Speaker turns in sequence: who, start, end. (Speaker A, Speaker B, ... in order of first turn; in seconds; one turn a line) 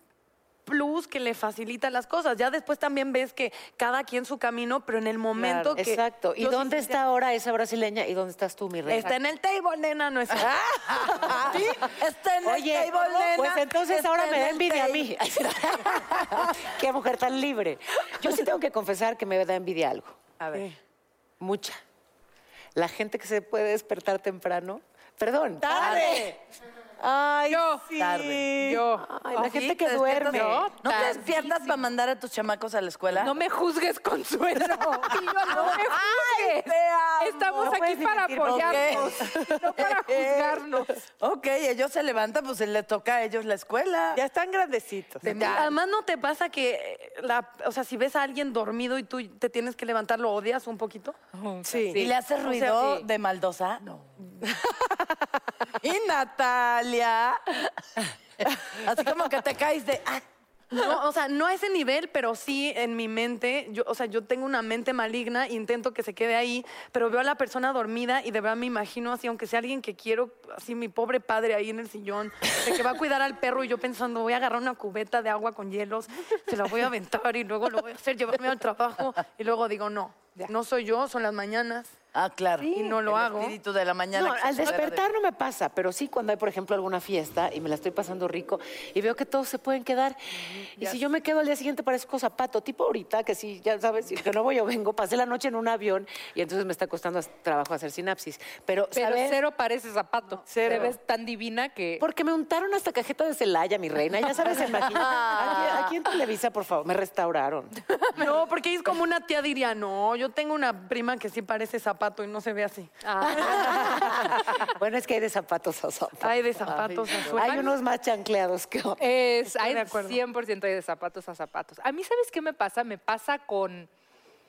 Speaker A: 0.7-7.0
Speaker B: 5.3-5.8
Speaker C: 5.8-9.1
Speaker A: 8.8-10.6
Speaker D: 10.3-15.1
Speaker A: 11.1-11.8
Speaker C: 12.4-20.3
Speaker D: 15.8-16.5
Speaker C: 21.4-21.8
Speaker C: 22.7-26.2
Speaker B: 25.6-26.4
Speaker D: 25.7-26.2
Speaker B: 27.3-28.9
Speaker E: 27.5-27.9
Speaker D: 27.9-28.5
Speaker E: 28.6-29.1
Speaker C: 29.1-30.7
Speaker D: 29.4-33.3
Speaker E: 30.3-31.8
Speaker E: 33.1-40.9
Speaker D: 35.5-37.8
Speaker B: 37.6-39.3
Speaker D: 38.4-40.6
Speaker D: 41.2-44.2
Speaker B: 44.1-45.6
Speaker E: 45.2-45.7
Speaker A: 45.2-51.1
Speaker E: 51.3-52.1
Speaker B: 51.6-52.0
Speaker D: 51.9-54.3
Speaker A: 52.5-52.9
Speaker D: 55.8-57.6
Speaker D: 58.6-60.2
Speaker A: 60.7-81.9
Speaker D: 82.1-85.1
Speaker A: 82.6-83.5
Speaker C: 84.1-99.4
Speaker E: 90.8-91.0
Speaker E: 98.9-102.0
Speaker B: 100.5-101.0
Speaker C: 102.0-107.8
Speaker D: 104.9-105.9
Speaker A: 108.1-113.8
Speaker E: 113.0-114.3
Speaker C: 113.2-119.0
Speaker A: 116.2-117.8
Speaker E: 119.0-123.9
Speaker A: 119.4-120.2